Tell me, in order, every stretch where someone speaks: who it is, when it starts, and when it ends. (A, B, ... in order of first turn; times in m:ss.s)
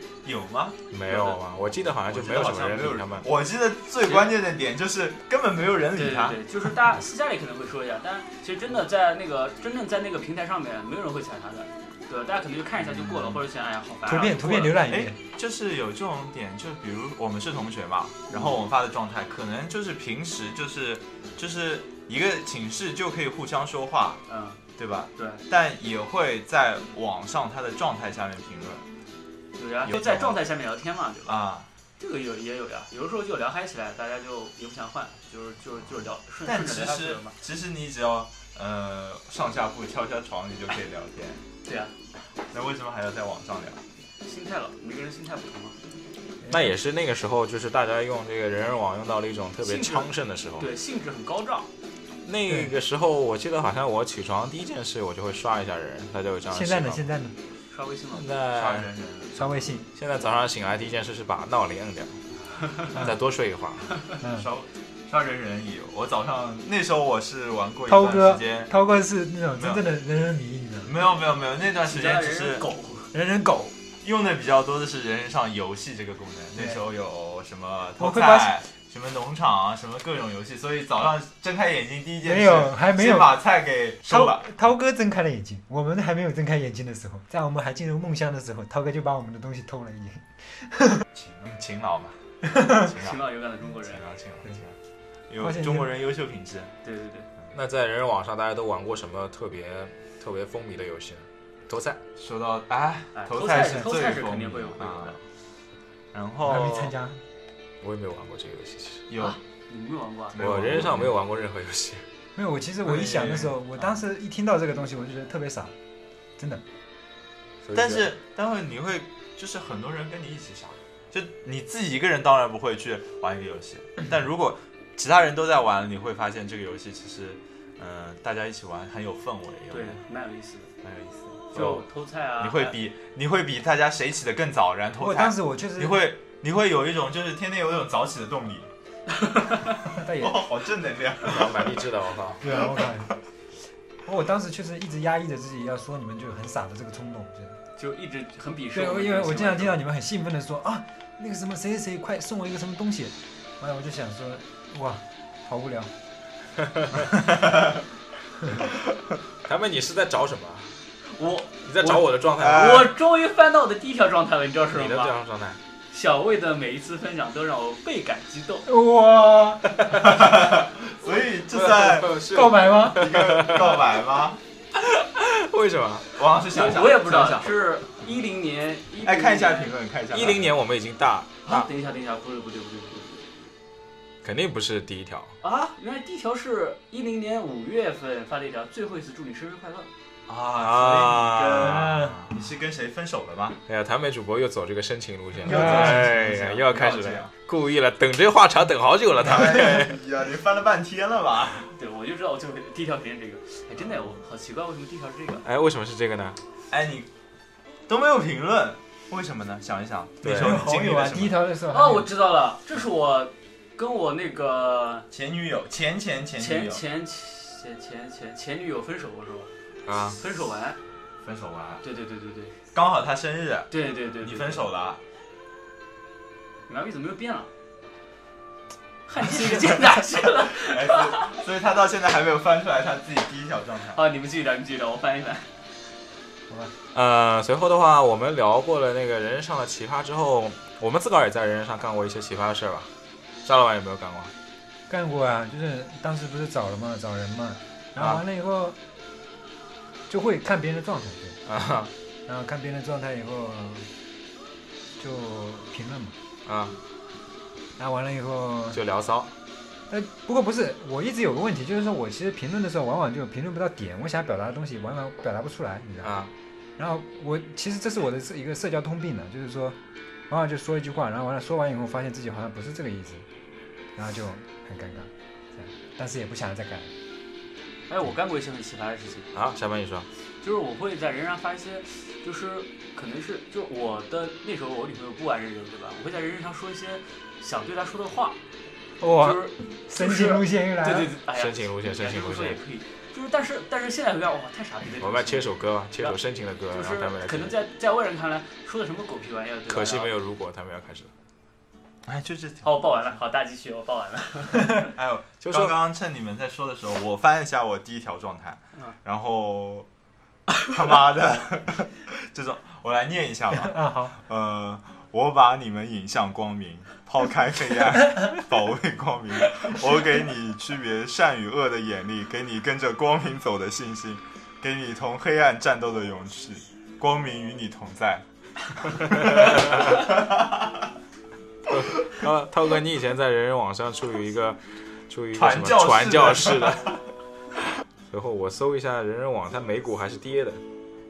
0:00.2-0:00.8 A
0:00.9-0:03.3 B
0:01.1-0:01.4 C
0:02.1-0:06.4 A
0:04.0-0:04.3 C
0:05.9-0:14.8 C
0:14.1-0:15.2 D
0:14.8-0:24.2 A
0:18.3-0:18.7 C
0:24.3-0:24.6 C
0:24.8-0:28.8 A
0:25.2-0:25.4 C
0:29.6-0:31.4 C
0:29.9-0:30.4 A
0:31.3-0:31.7 A
0:32.0-0:37.4 C
0:36.4-0:41.4 A
0:41.6-0:41.9 C
0:42.5-0:43.8 A
0:44.2-0:45.8 C
0:46.4-0:46.7 D
0:46.5-0:50.7 B
0:49.6-0:51.7 C
0:52.2-0:57.1 B
0:56.5-0:57.4 D
0:57.7-0:58.3 C
0:58.1-0:58.9 B
0:58.5-0:59.6 A
0:59.4-0:59.9 D
0:59.9-1:02.2 B
1:02.9-1:03.9 B
1:04.2-1:04.4 D
1:04.2-1:08.7 A
1:07.9-1:10.9 D
1:09.6-1:09.8 A
1:10.9-1:12.7 A
1:11.6-1:13.1 C
1:13.1-1:13.8 D
1:14.0-1:24.5 A
1:18.0-1:18.6 D
1:22.2-1:23.4 D
1:24.0-1:31.0 D
1:31.1-1:33.3 A
1:32.6-1:34.0 C
1:33.8-1:34.8 A
1:35.3-1:36.7 A
1:35.4-1:35.9 D
1:36.8-1:37.3 C
1:37.5-1:42.0 B
1:42.2-1:45.2 A
1:43.2-1:45.2 C
1:46.1-1:47.0 A
1:46.4-1:47.2 D
1:47.8-1:49.0 B
1:49.1-1:49.4 A
1:49.2-1:50.4 C
1:50.3-1:51.1 A
1:50.4-1:52.0 B
1:52.4-1:55.7 D
1:52.8-1:53.6 A
1:56.4-1:56.6 D
1:57.6-1:58.1 B
1:57.7-2:10.0 A
2:09.7-2:10.7 C
2:10.8-2:11.8 A
2:11.5-2:12.8 C
2:12.4-2:18.7 A
2:15.0-2:16.0 D
2:19.2-2:19.6 C
2:20.0-2:20.5 D
2:20.0-2:21.7 A
2:21.2-2:22.6 B
2:22.4-2:23.1 D
2:24.0-2:27.6 D
2:27.8-2:29.8 C
2:28.8-2:35.9 D
2:39.4-2:40.8 B
2:41.1-2:45.2 C
2:41.7-2:42.9 B
2:42.4-2:42.9 A
2:44.7-2:45.6 B
2:45.9-2:48.7 C
2:48.7-2:49.9 D
2:49.9-2:54.4 A
2:51.5-2:53.9 B
2:52.2-2:53.0 D
2:54.8-2:56.2 B
2:56.2-2:57.6 A
2:56.5-2:59.7 C
2:59.0-3:00.5 A
3:00.1-3:01.7 B
3:01.5-3:03.2 C
3:04.2-3:05.4 B
3:05.4-3:09.9 C
3:10.3-3:13.6 A
3:10.6-3:12.1 B
3:11.4-3:11.8 C
3:11.8-3:12.2 D
3:13.7-3:20.0 B
3:15.4-3:17.3 A
3:15.5-3:16.1 D
3:19.2-3:21.7 A
3:21.8-3:25.4 C
3:25.4-3:26.4 B
3:26.7-3:27.1 A
3:27.9-3:31.5 A
3:30.2-3:30.7 B
3:30.2-3:32.1 D
3:31.7-3:35.1 C
3:35.1-3:36.8 A
3:36.4-3:39.5 C
3:39.9-3:40.2 B
3:40.2-3:40.8 C
3:41.2-3:41.8 A
3:41.8-3:42.6 C
3:42.7-3:43.7 A
3:43.7-3:44.7 C
3:44.2-3:45.0 A
3:46.7-3:47.5 C
3:49.1-3:51.3 C
3:50.6-3:54.0 A
3:53.9-3:55.5 C
3:56.9-4:02.9 B
4:03.4-4:04.3 B
4:04.9-4:08.8 D
4:08.0-4:08.2 B
4:10.1-4:11.4 D
4:11.5-4:11.9 B
4:12.3-4:13.9 D
4:15.0-4:16.2 D
4:16.5-4:16.8 B
4:17.8-4:18.8 D
4:18.7-4:19.3 B
4:19.9-4:26.2 D
4:26.0-4:26.3 B
4:26.8-4:29.8 D
4:30.3-4:33.3 D
4:34.0-4:36.9 D
4:37.9-4:39.3 C
4:39.3-4:40.1 B
4:40.4-4:48.4 C
4:49.0-4:51.1 D
4:49.2-4:56.2 C
4:51.3-4:52.6 B
4:55.0-4:57.6 B
4:56.7-5:00.1 C
4:59.7-5:01.1 B
5:02.1-5:02.7 A
5:02.6-5:04.9 C
5:04.9-5:09.9 A
5:05.4-5:05.8 B
5:10.6-5:30.7 A
5:13.6-5:14.2 D
5:31.7-5:37.0 B
5:35.3-5:37.0 A
5:38.1-5:40.6 B